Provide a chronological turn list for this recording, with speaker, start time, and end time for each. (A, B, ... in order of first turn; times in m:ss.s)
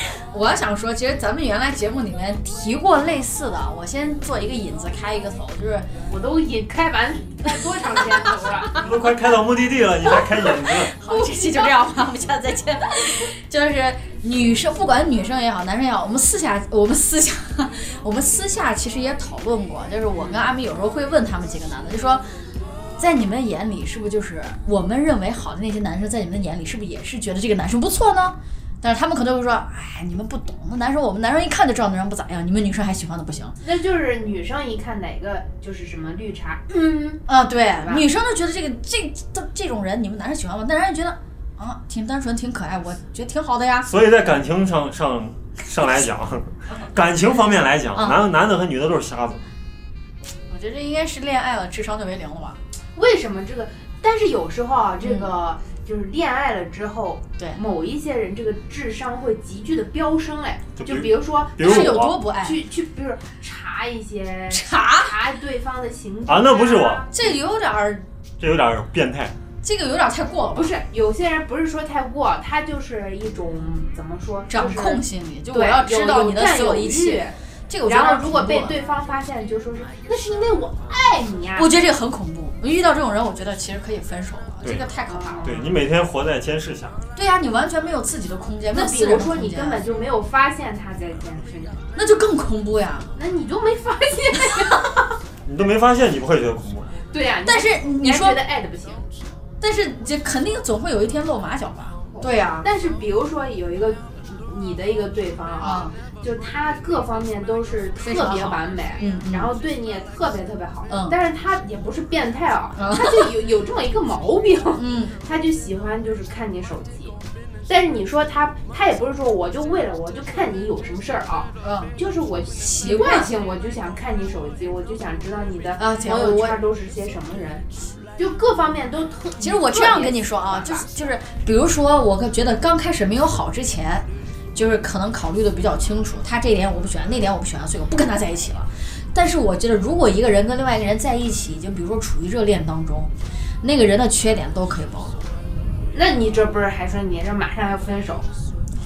0:00.3-0:05.9 A
0:06.1-0:08.7 B
0:08.8-0:10.9 C
0:10.7-0:22.2 A
0:11.0-0:11.7 B
0:20.1-0:20.5 B
0:23.0-0:33.5 A
0:33.6-0:37.2 B
0:36.7-0:43.9 A
0:37.8-0:38.0 B
0:43.9-0:49.4 C
0:47.9-0:48.2 A
0:50.5-0:52.6 A
0:53.0-1:07.2 B
0:55.0-0:55.3 A
1:00.8-1:02.2 C
1:01.6-1:02.6 A
1:04.5-1:05.1 A
1:06.2-1:07.1 C
1:07.1-1:08.0 A
1:08.4-1:09.3 C
1:09.6-1:10.7 A
1:10.5-1:17.4 B
1:14.5-1:18.8 A
1:17.9-1:21.8 B
1:21.6-1:25.5 A
1:25.1-1:25.6 B
1:25.4-1:27.0 C
1:27.2-1:29.8 A
1:28.7-1:31.8 B
1:32.0-1:33.2 A
1:33.2-1:34.9 B
1:35.4-1:37.0 C
1:37.1-1:39.1 B
1:37.4-1:38.4 A
1:39.6-1:42.7 A
1:42.1-1:57.1 B
1:45.6-1:45.9 A
1:48.0-1:49.5 A
1:50.9-1:51.2 A
1:52.8-1:53.3 A
1:54.7-1:55.1 A
1:57.7-2:07.6 B
2:01.6-2:01.9 A
2:02.6-2:03.3 A
2:05.8-2:06.6 A
2:08.2-2:10.9 B
2:09.4-2:25.2 A
2:25.9-2:28.3 B